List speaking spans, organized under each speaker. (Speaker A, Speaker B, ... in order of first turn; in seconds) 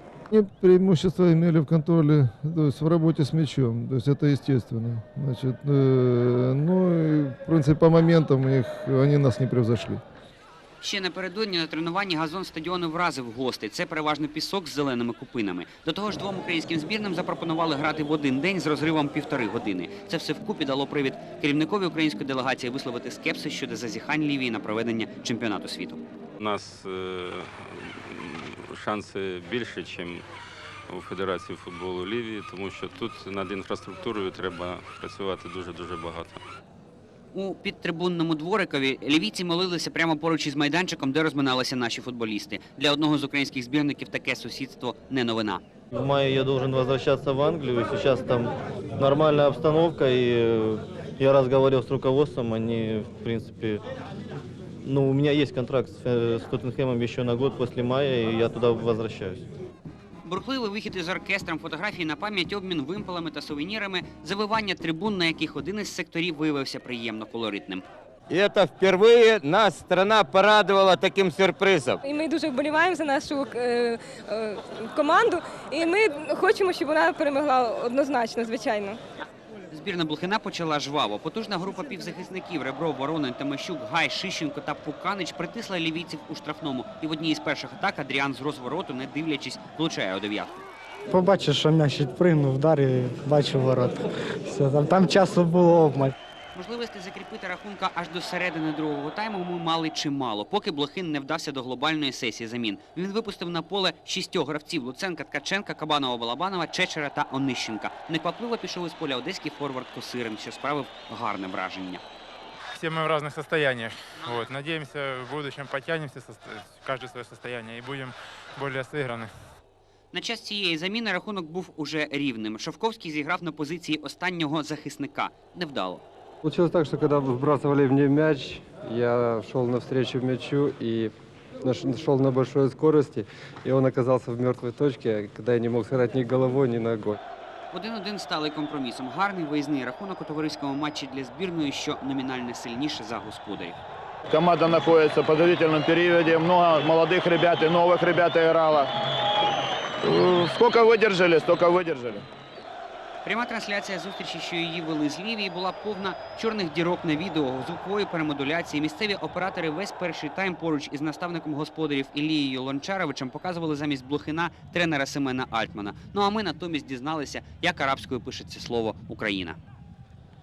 Speaker A: 0.3-10.0
Speaker B: 10.8-26.0, 37.3-45.6, 60.2-67.8, 79.7-90.6, 96.5-112.0, 120.1-126.0, 137.7-143.8, 153.2-169.6
Speaker C: 26.4-30.2, 30.9-36.4
Speaker D: 45.9-53.8, 54.8-59.4
Speaker E: 68.3-72.0
Speaker F: 72.0-79.0
Speaker G: 91.1-96.1
Speaker H: 112.8-119.3
Speaker I: 126.4-137.2
Speaker J: 144.3-148.8, 150.1-152.2